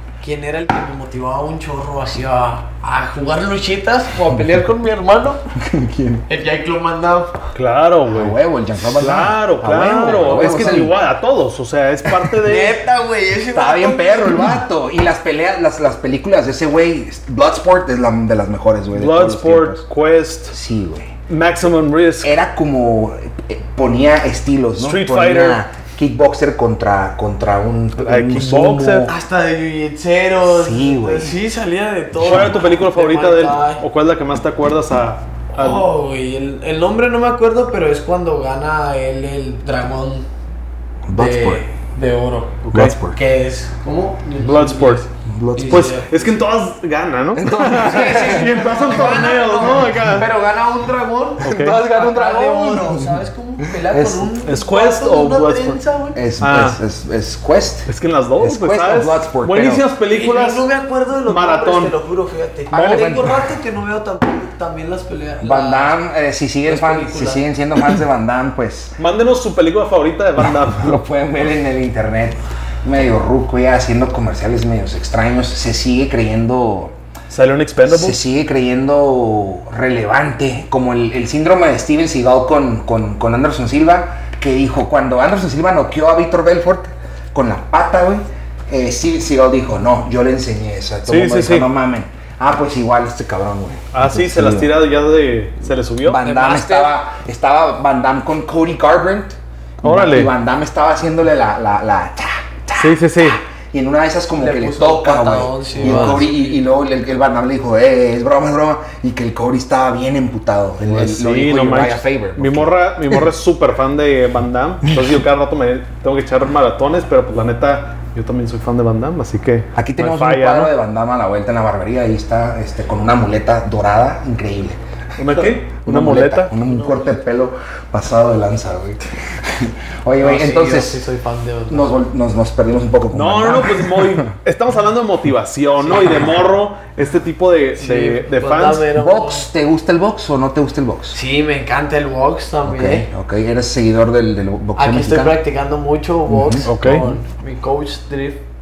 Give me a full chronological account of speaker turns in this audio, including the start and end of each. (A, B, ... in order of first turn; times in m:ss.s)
0:00.2-0:05.4 A
0:05.6-0:06.2 B
0:06.3-0:07.4 A
0:07.6-0:12.8 C
0:08.1-0:11.0 B
0:10.0-0:10.9 A
0:12.4-0:14.6 A
0:13.5-0:19.8 B
0:18.9-0:20.6 C
0:20.5-0:21.1 B
0:21.3-0:22.4 C
0:22.2-0:29.1 B
0:24.8-0:25.6 C
0:28.0-0:29.1 C
0:29.1-0:33.8 A
0:30.5-0:31.4 B
0:32.2-0:35.9 C
0:32.2-0:32.6 B
0:35.6-0:40.3 A
0:41.1-0:41.7 B
0:41.2-0:46.4 A
0:42.6-0:43.0 C
0:42.7-0:43.2 B
0:44.4-0:45.0 C
0:45.2-0:45.9 B
0:45.7-0:50.3 C
0:47.4-0:49.0 B
0:47.7-0:56.2 A
0:51.4-0:51.9 C
0:51.5-0:53.1 B
0:53.8-0:54.3 B
0:54.4-0:55.8 C
0:56.2-0:59.8 B
0:56.4-0:56.8 C
0:57.9-1:00.7 C
1:00.1-1:06.0 A
1:01.3-1:02.0 C
1:02.7-1:03.5 B
1:05.4-1:09.0 B
1:06.7-1:07.5 A
1:09.0-1:11.0 C
1:10.5-1:17.0 B
1:17.3-1:18.2 C
1:17.9-1:34.8 B
1:31.1-1:31.7 C
1:33.9-1:36.2 C
1:36.0-1:53.2 B
1:36.2-1:37.0 A
1:39.8-1:40.3 C
1:42.8-1:43.4 C
1:44.4-1:46.6 A
1:45.8-1:46.3 C
1:50.9-2:00.7 C
1:59.8-2:04.8 B
2:05.2-2:06.5 C
2:05.3-2:11.0 B
2:06.5-2:07.2 A
2:10.2-2:12.0 A
2:11.7-2:14.3 B
2:13.1-2:18.9 C
2:17.8-2:19.5 A
2:18.9-2:21.2 B
2:21.1-2:23.1 A
2:22.7-2:25.4 B
2:24.8-2:28.4 A
2:26.3-2:27.0 B
2:26.6-2:27.1 C